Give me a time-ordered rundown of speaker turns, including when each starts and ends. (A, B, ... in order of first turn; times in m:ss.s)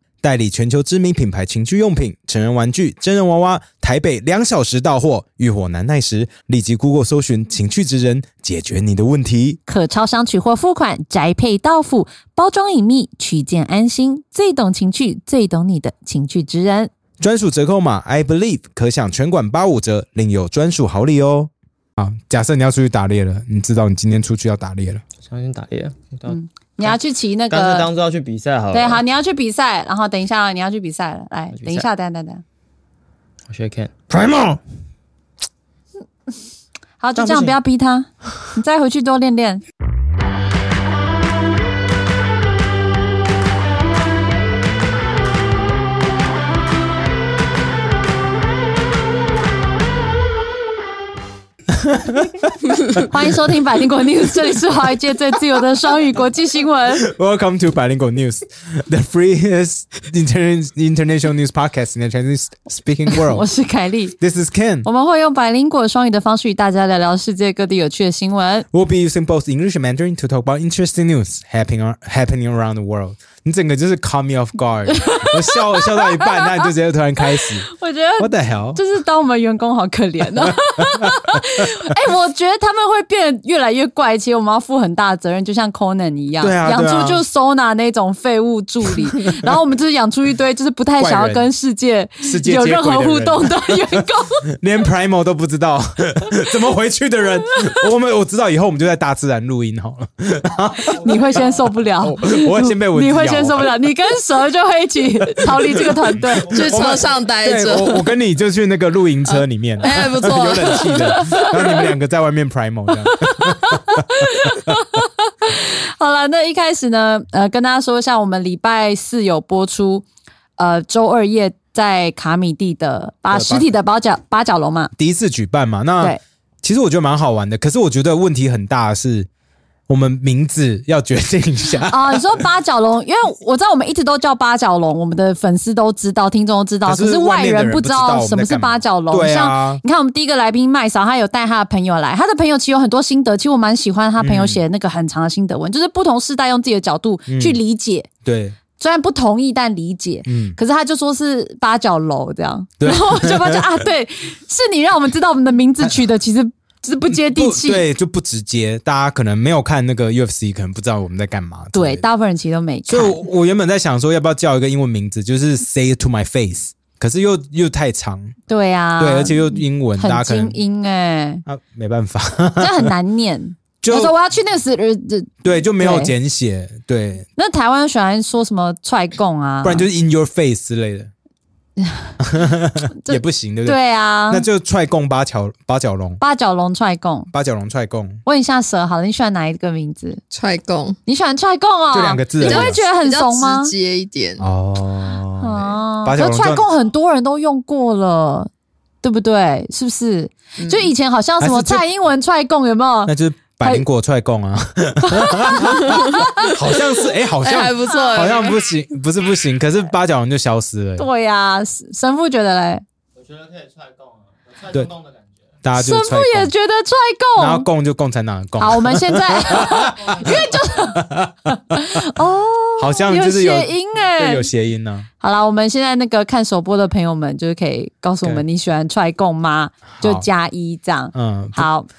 0:00.2-0:09.6 A
0:09.7-0:16.9 B
0:17.2-0:25.0 A
0:25.2-0:27.0 C
0:26.3-0:27.9 B
0:27.5-0:29.0 C
0:28.7-0:32.4 B
0:31.5-0:31.9 C
0:33.5-0:34.6 C
0:37.0-0:39.6 B
0:37.2-0:37.6 C
0:51.7-0:53.5 A
0:53.0-0:57.0 B
0:57.0-1:03.5 A
1:03.1-1:04.2 B
1:04.2-1:04.9 A
1:04.8-1:08.7 B
1:08.7-1:17.7 A
1:15.0-1:16.7 B
1:17.7-1:34.4 B
1:18.2-1:18.8 A
1:20.4-1:21.7 A
1:26.4-1:27.2 A
1:31.0-1:31.5 A
1:32.2-1:41.4 A
1:40.9-1:46.8 B
1:42.0-1:43.7 A
1:46.2-1:54.7 A
1:46.5-1:48.1 D
1:49.8-1:51.8 D
1:53.2-2:00.1 B
2:00.6-2:04.9 B
2:03.3-2:03.7 A
2:05.0-2:09.3 A
2:09.9-2:12.4 A
2:11.9-2:28.1 B
2:16.9-2:19.8 A
2:24.2-2:24.6 A
2:27.3-2:27.6 A
2:28.2-2:28.6 A
2:28.8-2:37.8 B
2:30.3-2:30.6 A
2:32.8-2:33.8 A
2:37.1-2:42.0 A
2:41.7-2:43.2 B
2:42.9-2:48.4 A
2:48.5-2:51.4 B
2:49.0-2:50.6 A
2:51.5-2:52.9 A
2:52.6-2:56.1 B
2:53.8-2:54.2 A
2:55.4-2:57.3 A
2:57.4-2:59.9 B
2:59.6-3:01.1 A
3:01.8-3:02.1 B
3:02.2-3:03.8 A
3:03.0-3:04.5 B
3:04.3-3:06.2 A
3:06.2-3:07.3 B
3:07.3-3:08.2 A
3:08.2-3:10.2 B
3:10.3-3:11.0 D
3:11.1-3:13.7 B
3:11.9-3:12.8 A
3:12.4-3:14.4 D
3:14.4-3:16.6 A
3:15.4-3:18.5 B
3:19.0-3:23.8 B
3:20.6-3:20.9 D
3:21.4-3:21.8 A
3:23.1-3:31.1 A
3:25.1-3:26.5 B
3:27.4-3:28.6 D
3:31.0-3:32.8 B
3:34.7-3:35.0 A
3:35.6-3:36.5 A
3:35.8-3:37.7 B
3:37.4-3:41.5 A
3:38.6-3:41.0 B
3:41.7-3:44.5 B
3:42.8-3:45.1 A
3:45.2-3:51.9 B
3:50.0-3:50.3 A
3:51.1-3:51.7 A